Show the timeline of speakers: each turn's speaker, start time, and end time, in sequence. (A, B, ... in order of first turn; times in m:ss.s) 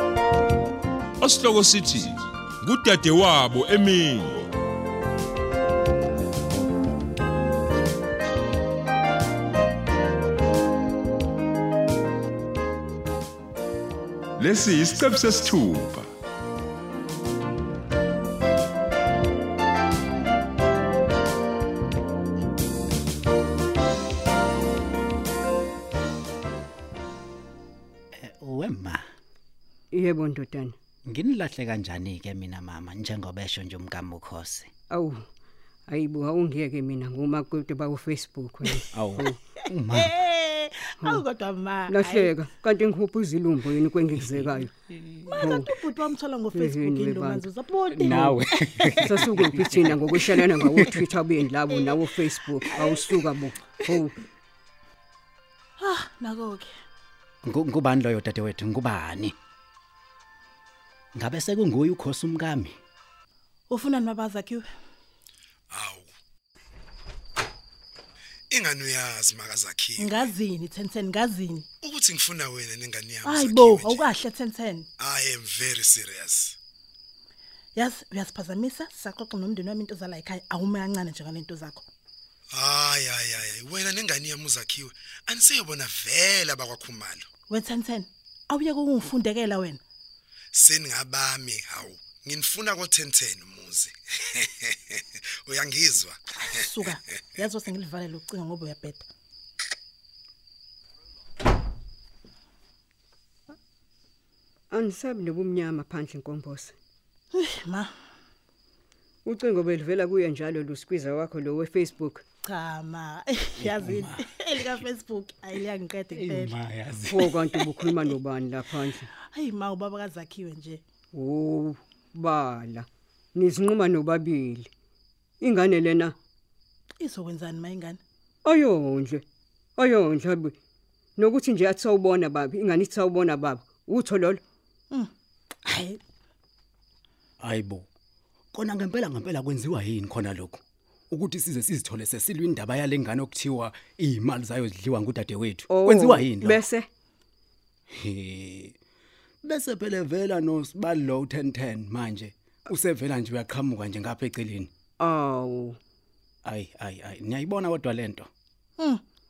0:01.2-0:04.5 A
0:14.4-0:16.1 A
0:28.1-0:29.1 B
0:29.9-0:30.7 C
0:31.0-0:34.7 B
0:34.9-0:35.2 C
0:35.9-0:39.4 C
0:38.9-0:40.1 B
0:39.6-0:42.3 D
0:41.9-0:44.7 C
0:45.2-0:45.7 C
0:45.2-0:49.0 D
0:46.5-0:47.4 C
0:47.9-0:51.0 B
0:48.1-0:48.4 C
0:49.0-0:54.2 C
0:55.8-0:56.7 D
0:57.4-0:59.3 B
1:01.1-1:02.8 B
1:03.7-1:04.6 D
1:05.7-1:06.1 E
1:08.5-1:10.2 E
1:10.0-1:11.7 D
1:11.8-1:14.0 E
1:13.2-1:14.9 D
1:15.0-1:16.6 E
1:17.7-1:21.9 D
1:22.5-1:27.3 E
1:27.5-1:29.8 D
1:30.5-1:36.2 E
1:36.4-1:39.1 D
1:44.7-1:46.7 C
1:47.3-1:47.9 D
1:49.2-1:52.2 C
1:52.4-1:56.6 D
1:53.6-1:54.7 B
1:56.1-1:57.6 B
1:57.1-1:59.1 C
1:59.2-2:00.8 D
2:01.1-2:04.7 C
2:05.4-2:06.1 C
2:07.0-2:08.0 D
2:08.4-2:09.2 C
2:09.8-2:10.5 C
2:11.2-2:14.4 C
2:15.6-2:16.0 D
2:17.4-2:17.9 B
2:18.5-2:26.6 B
2:25.7-2:26.9 C
2:27.9-2:28.7 B
2:29.4-2:34.7 B
2:35.0-2:35.8 C
2:36.4-2:38.3 B